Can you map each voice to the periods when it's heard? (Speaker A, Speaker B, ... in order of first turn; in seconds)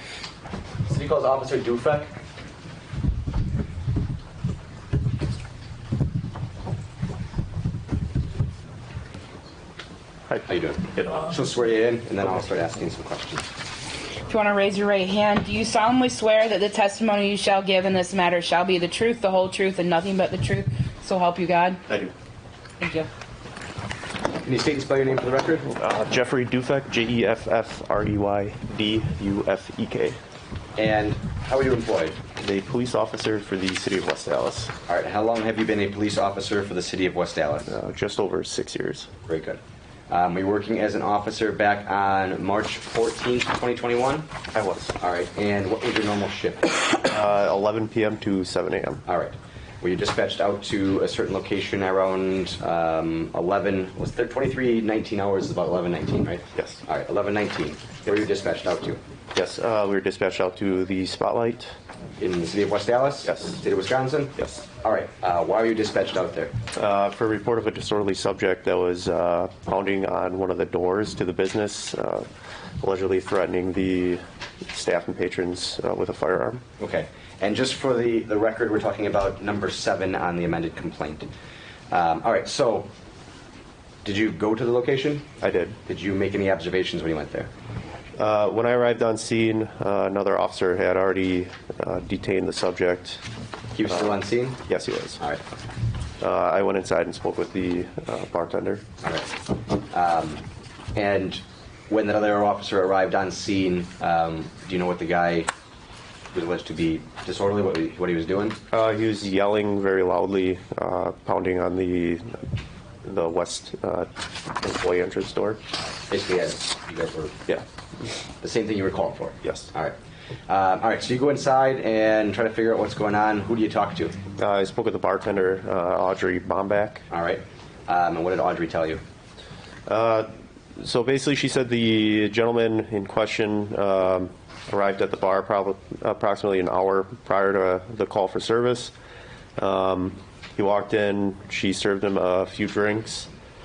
Speaker A: 0.8-2.1, 10.4-13.4, 24.4-25.7, 30.8-32.2, 34.9-37.7, 39.2-44.3, 45.0-46.9, 49.0-59.0, 62.2-66.5, 76.8-81.3, 81.9-82.9, 84.0-85.3, 85.8-87.5, 93.7-94.7, 99.0-99.3, 99.9-100.4, 100.9-105.5, 106.3-108.6, 116.1-117.4, 118.4-124.2, 127.1-129.0
Speaker B: 10.9-11.3, 25.7-30.2, 32.4-34.7, 37.7-39.1, 44.5-45.0, 47.0-49.0, 56.5-56.8, 59.3-61.7, 63.2-63.6, 64.4-64.6, 66.8-72.3, 72.8-76.6, 85.4-85.8, 88.2-93.2, 94.7-95.2, 96.2-98.8, 108.7-112.4, 113.0-115.6, 119.4-119.7, 124.4-127.0, 129.9-138.9, 139.6-143.3
Speaker C: 14.3-21.8, 22.8-23.1